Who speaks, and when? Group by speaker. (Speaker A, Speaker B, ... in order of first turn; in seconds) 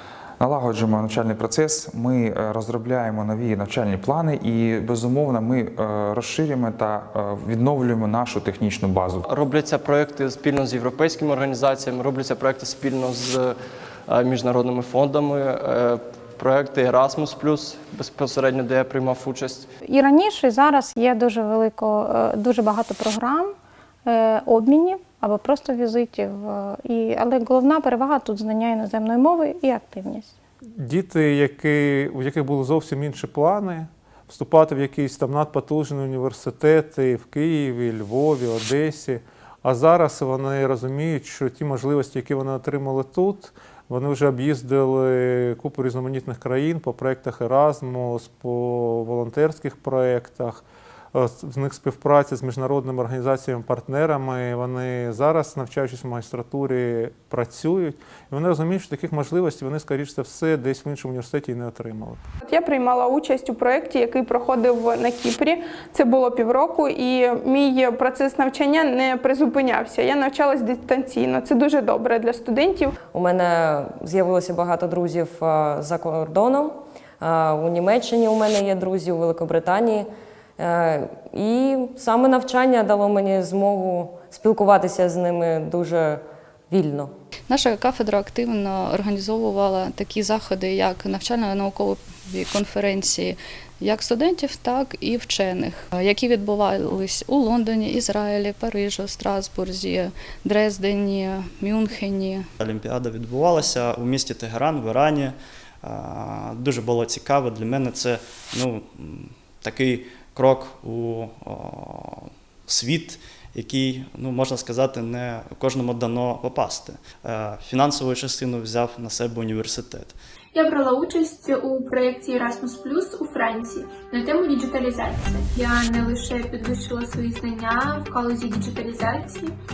Speaker A: 0.4-9.3
Speaker B: 9.3-13.6, 14.1-19.7
Speaker C: 19.9-23.6, 24.1-30.3
Speaker D: 30.8-50.6, 51.1-62.2
Speaker E: 62.5-72.9
Speaker F: 73.1-87.1
Speaker G: 87.5-102.5
Speaker H: 102.6-120.2
Speaker I: 120.5-129.5